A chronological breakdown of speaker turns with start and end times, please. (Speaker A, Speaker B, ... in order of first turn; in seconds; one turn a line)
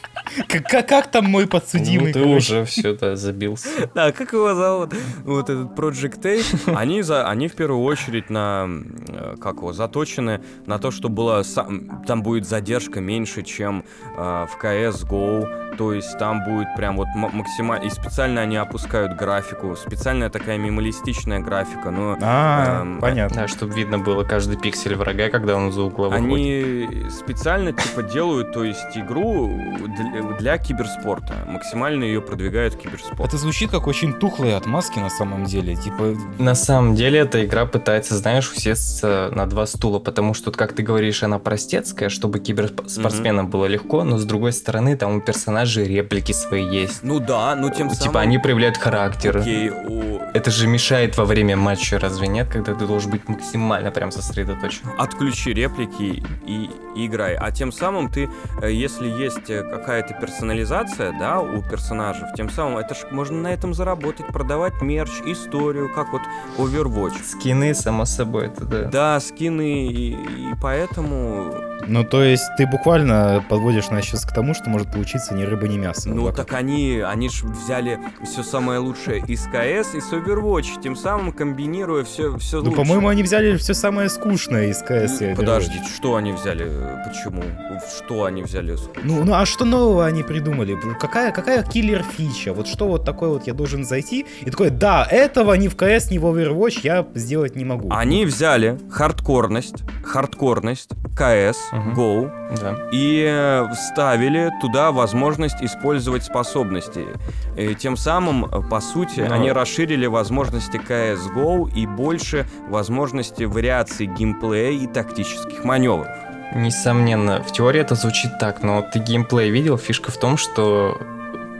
Speaker A: 0.4-2.8
Speaker B: 1.7-3.8
Speaker C: 3.7-23.2
Speaker A: 22.2-23.4
Speaker B: 23.3-26.5
Speaker C: 26.1-33.3
Speaker A: 33.2-36.4
Speaker B: 36.4-47.0
Speaker C: 42.9-43.3
Speaker C: 47.0-48.4
Speaker B: 47.7-49.5
Speaker C: 49.2-50.3
Speaker B: 50.3-54.9
Speaker C: 54.9-67.3
Speaker B: 67.2-68.9
Speaker C: 68.8-71.6
Speaker A: 71.8-76.5
Speaker C: 76.0-83.0
Speaker A: 82.6-85.8
Speaker C: 85.0-89.2
Speaker A: 89.0-98.2
Speaker C: 97.9-102.3
Speaker B: 101.7-102.8
Speaker C: 102.9-116.2
Speaker B: 109.1-109.6
Speaker B: 116.5-121.0